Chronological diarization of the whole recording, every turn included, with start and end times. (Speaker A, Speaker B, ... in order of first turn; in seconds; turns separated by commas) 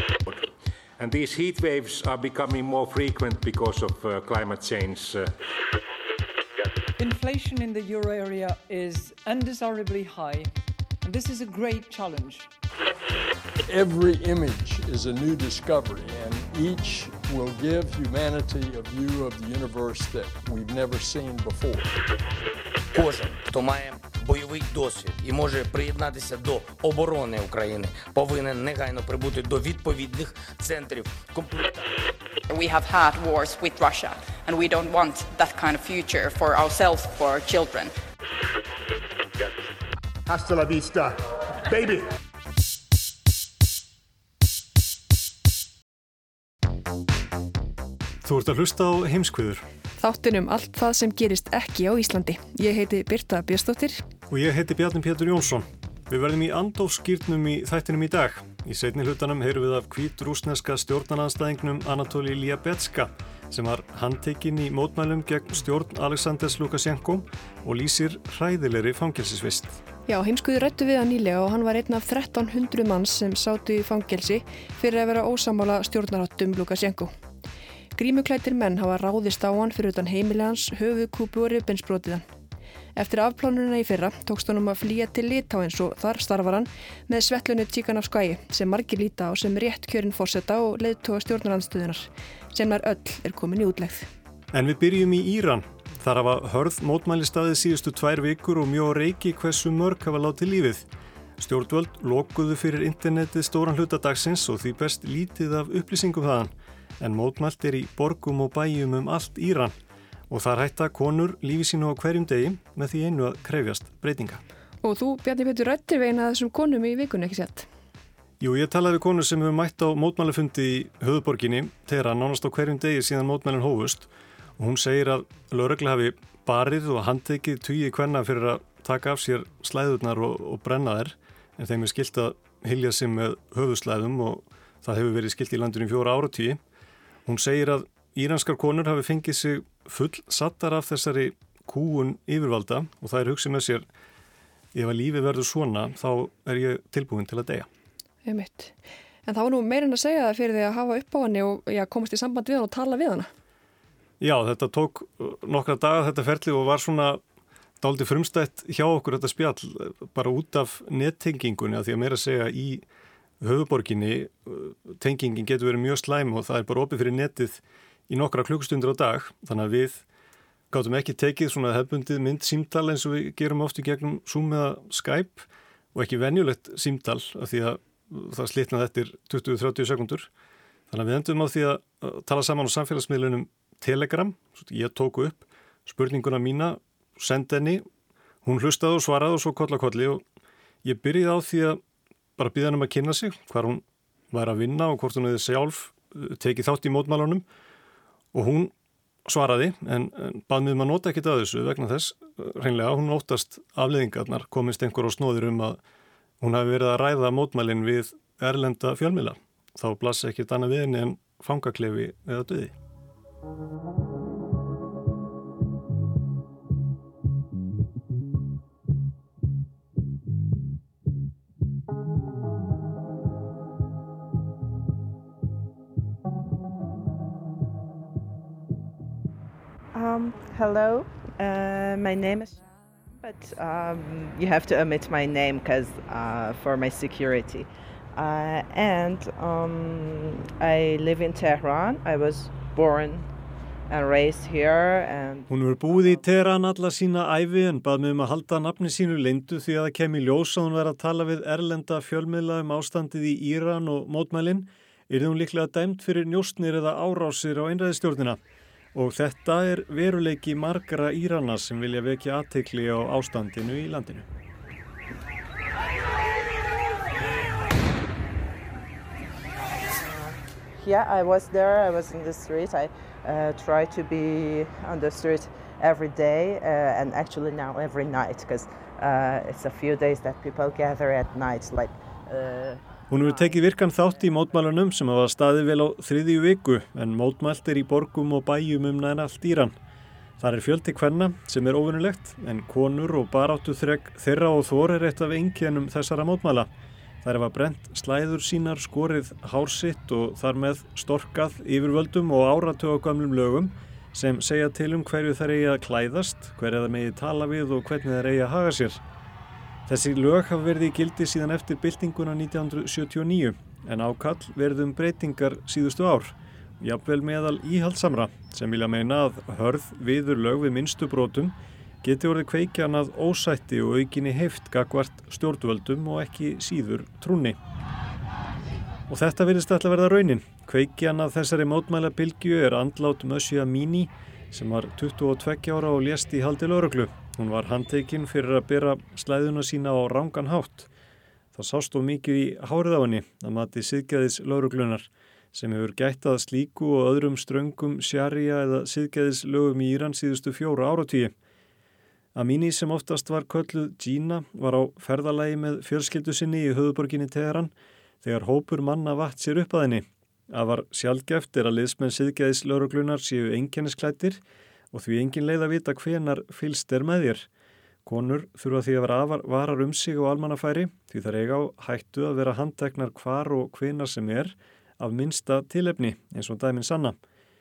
Speaker A: 0.3-5.3, Speaker B: 7.0-10.5, Speaker B: 11.0-12.5, Speaker C: 13.7-21.9, Speaker D: 22.9-31.8, Speaker E: 32.5-37.9, Speaker F: 48.2-49.6, Speaker G: 50.0-54.0, Speaker F: 54.3-69.8, Speaker G: 70.1-77.1, Speaker G: 78.0-82.2, Speaker G: 83.0-94.1, Speaker F: 94.5-109.8, Speaker F: 110.3-114.4, Speaker G: 114.8-117.7, Speaker F: 118.4-136.6, Speaker F: 137.2-143.9, Speaker F: 144.7-147.7, Speaker G: 148.2-153.3, Speaker F: 154.2-157.2, Speaker F: 157.8-162.8, Speaker F: 163.4-170.1, Speaker F: 170.7-180.3, Speaker F: 180.9-187.8, Speaker F: 188.4-190.2, Speaker F: 190.8-191.8, Speaker F: 192.4-197.4, Speaker F: 198.3-198.7, Speaker F: 199.2-205.8, Speaker F: 206.4-212.8, Speaker H: 229.9-232.6, Speaker H: 233.2-243.3, Speaker H: 243.9-245.5, Speaker F: 245.5-258.4, Speaker F: 258.9-264.3, Speaker H: 270.8-283.6, Speaker F: 283.1-289.8, Speaker F: 290.4-296.7, Speaker F: 297.2-309.0, Speaker F: 309.9-327.6, Speaker F: 329.1-340.9, Speaker F: 341.5-351.3, Speaker F: 352.4-364.4, Speaker F: 364.9-367.5, Speaker F: 368.1-377.2